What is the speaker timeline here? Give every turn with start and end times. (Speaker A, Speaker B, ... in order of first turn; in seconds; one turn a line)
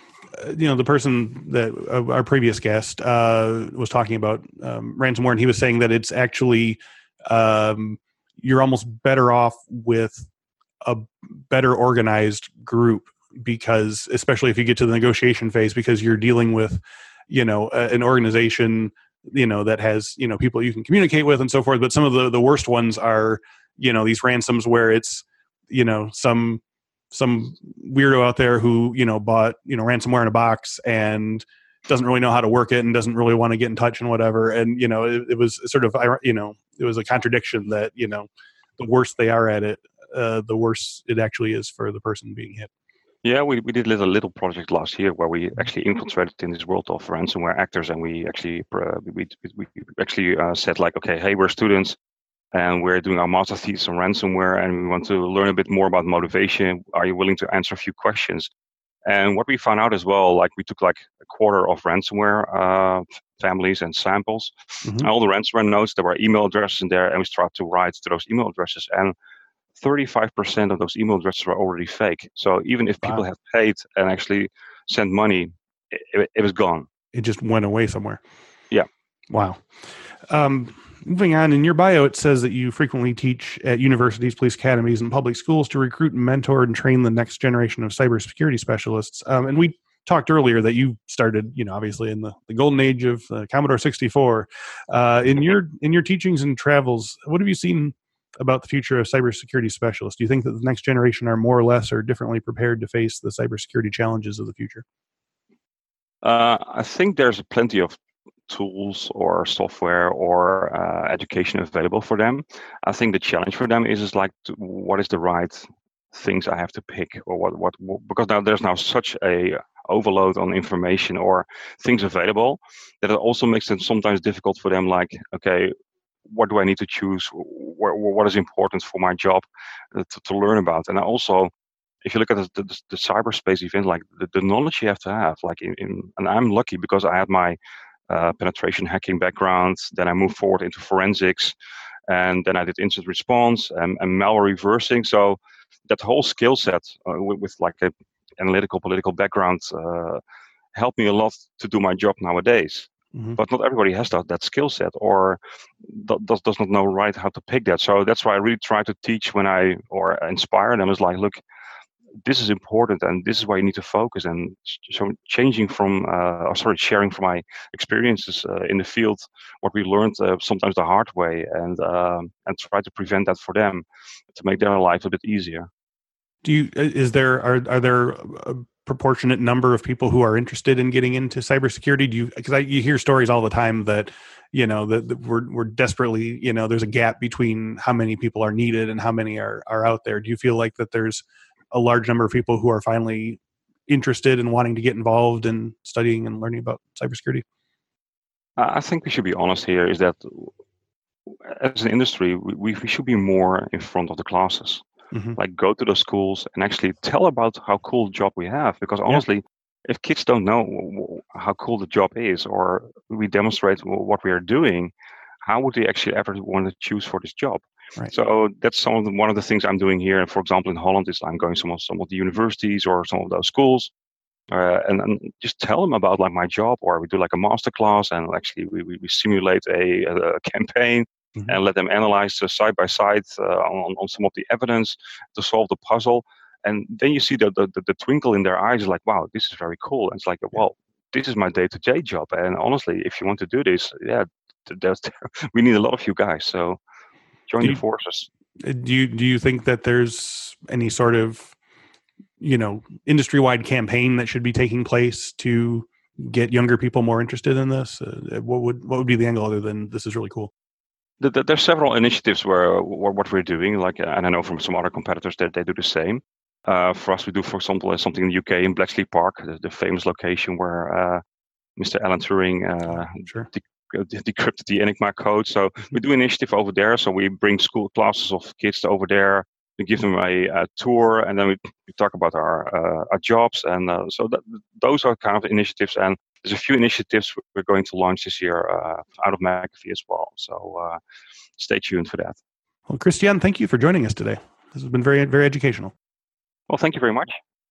Speaker A: 0.3-10.3
Speaker A: 10.8-26.6
Speaker A: 27.1-42.7
Speaker B: 43.2-52.0
Speaker B: 52.5-58.5
Speaker B: 59.1-69.1
Speaker A: 64.8-65.1
Speaker B: 69.8-76.9
Speaker A: 77.1-78.2
Speaker A: 79.3-104.8
Speaker B: 106.2-108.0
Speaker B: 108.5-125.7
Speaker B: 126.3-131.5
Speaker B: 132.0-137.6
Speaker B: 138.1-141.5
Speaker B: 142.1-150.2
Speaker B: 150.7-161.4
Speaker B: 162.2-175.7
Speaker A: 176.4-197.4
Speaker B: 198.6-200.5
Speaker B: 201.4-204.8
Speaker A: 205.1-205.4
Speaker B: 205.3-214.9
Speaker B: 215.4-223.9
Speaker B: 224.5-246.8
Speaker B: 247.5-248.3
Speaker A: 248.6-251.5
Speaker A: 252.4-260.5
Speaker B: 261.2-271.2
Speaker B: 271.8-291.0
Speaker A: 272.9-273.5
Speaker B: 291.6-292.4
Speaker A: 292.9-295.9
Speaker B: 296.7-297.4